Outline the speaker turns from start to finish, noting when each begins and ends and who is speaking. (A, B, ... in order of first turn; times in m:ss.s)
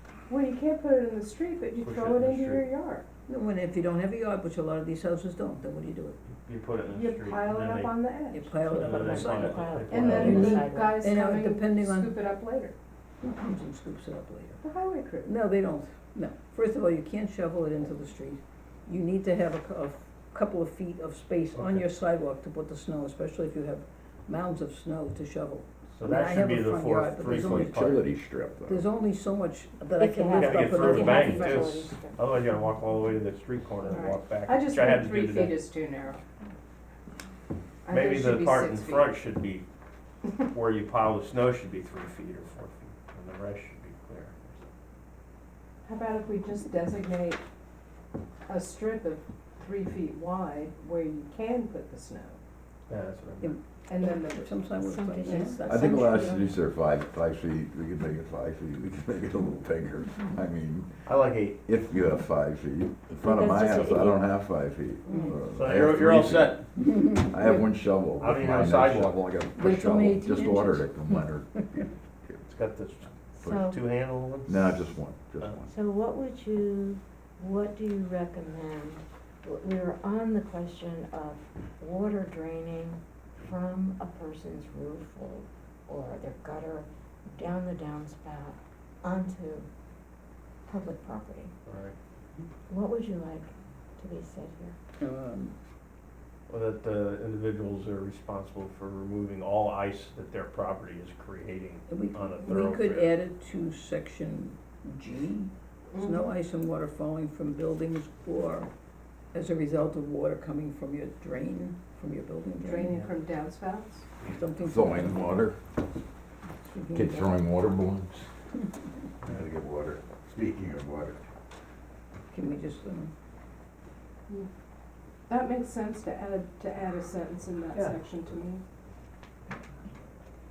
0:00.3-0:03.1 A
0:01.8-0:02.6 B
0:03.3-0:06.2 C
0:06.4-0:08.0 B
0:06.9-0:08.5 A
0:08.3-0:12.2 C
0:08.6-0:10.4 B
0:08.9-0:11.0 D
0:09.9-0:12.8 A
0:13.2-0:14.6 C
0:14.6-0:15.3 A
0:15.2-0:28.0 C
0:21.5-0:21.8 B
0:26.0-0:28.0 B
0:27.4-0:28.9 E
0:28.7-0:31.8 C
0:30.0-0:32.3 D
0:30.3-0:35.6 B
0:33.9-0:36.2 A
0:37.8-0:39.1 A
0:37.9-0:39.6 B
0:40.4-0:44.7 B
0:45.8-0:47.4 A
0:48.5-0:52.4 A
0:52.9-0:53.6 B
0:53.4-0:56.3 C
0:53.9-0:54.5 A
0:54.8-0:56.6 D
0:55.2-0:55.6 A
0:55.6-1:01.0 E
1:01.1-1:01.6 B
1:01.6-1:11.5 E
1:03.1-1:04.3 D
1:05.5-1:06.6 B
1:06.8-1:07.3 C
1:08.2-1:09.2 B
1:09.6-1:11.2 C
1:12.5-1:14.8 B
1:13.4-1:13.8 D
1:14.5-1:15.7 E
1:15.7-1:29.7 D
1:30.7-1:31.5 D
1:31.7-1:32.0 B
1:32.7-1:34.8 D
1:35.0-1:35.6 C
1:36.5-1:43.2 B
1:41.9-1:48.7 C
1:45.9-1:46.3 A
1:49.3-1:53.1 C
1:52.6-1:54.1 A
1:54.3-1:55.2 C
1:54.7-1:55.6 E
1:56.6-1:57.4 C
1:56.9-1:58.3 E
1:59.2-2:01.2 E
2:02.3-2:03.1 C
2:05.3-2:08.6 A